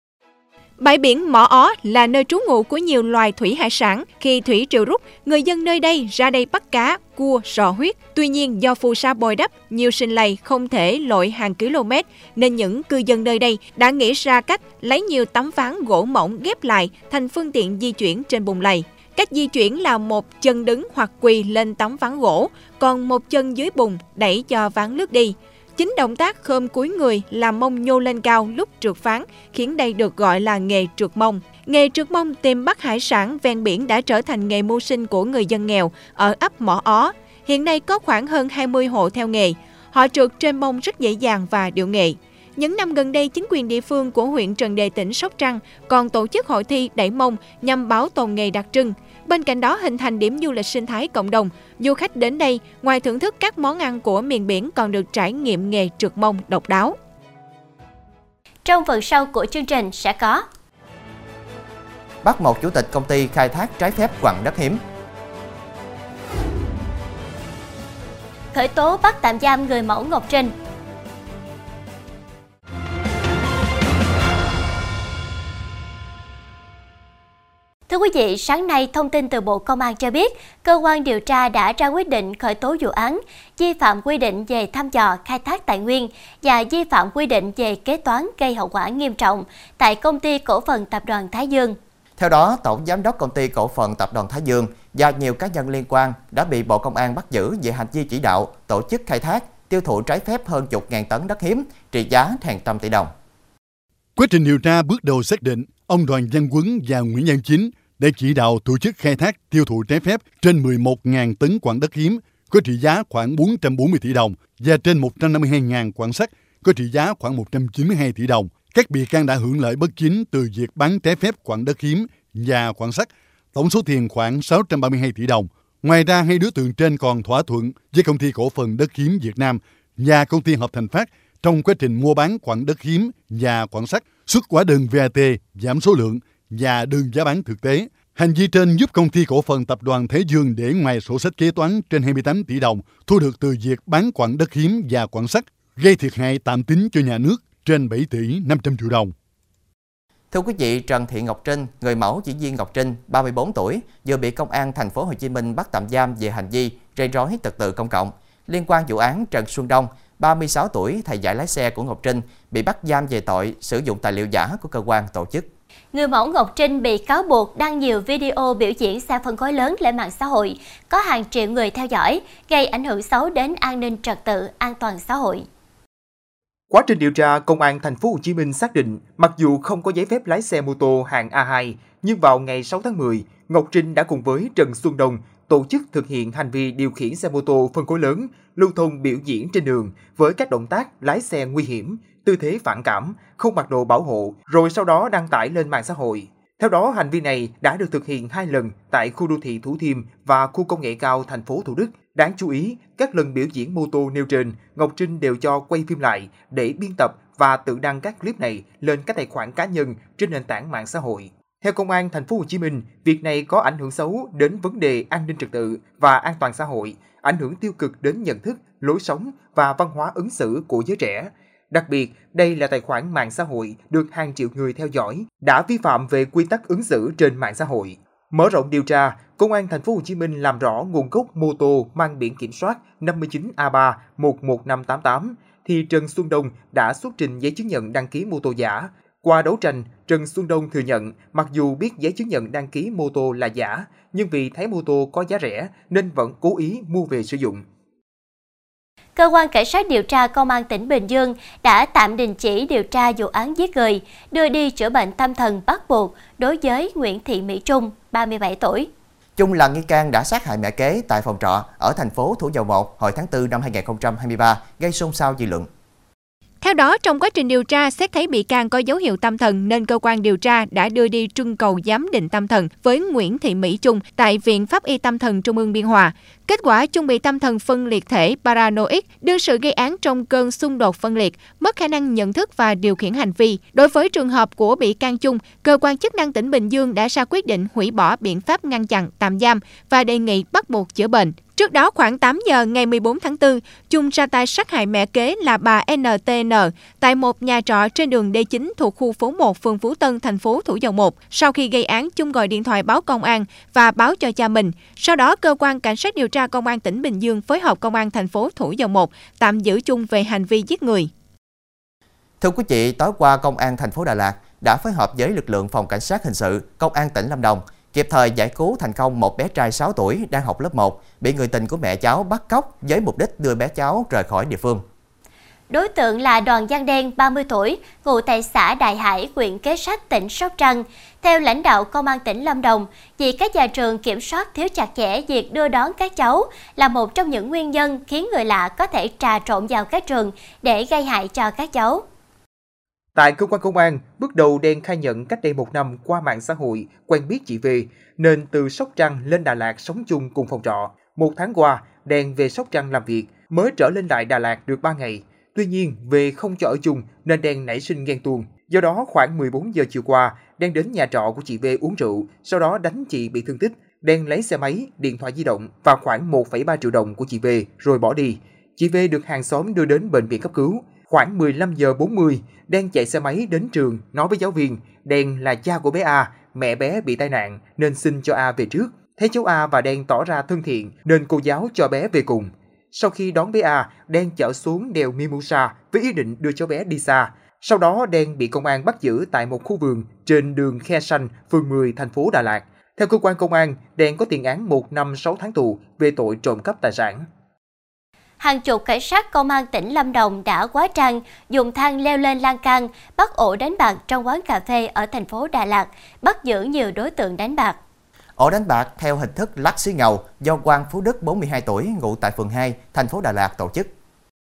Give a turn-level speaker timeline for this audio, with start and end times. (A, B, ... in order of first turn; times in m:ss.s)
0:00.8-0:56.9 A
0:58.6-1:00.4 B
1:02.2-1:04.8 C
1:08.5-1:10.5 B
1:17.9-1:31.8 B
1:32.2-1:43.1 C
1:44.2-2:29.1 D
2:30.3-2:45.5 C
2:45.9-2:55.4 B
2:56.7-4:07.6 E
4:09.2-4:18.9 B
4:19.4-4:25.7 C
4:26.6-5:11.1 A
5:12.4-5:24.8 C
5:25.7-5:42.0 B
5:43.2-6:37.3 E
6:38.4-6:47.8 B
6:48.4-6:53.9 C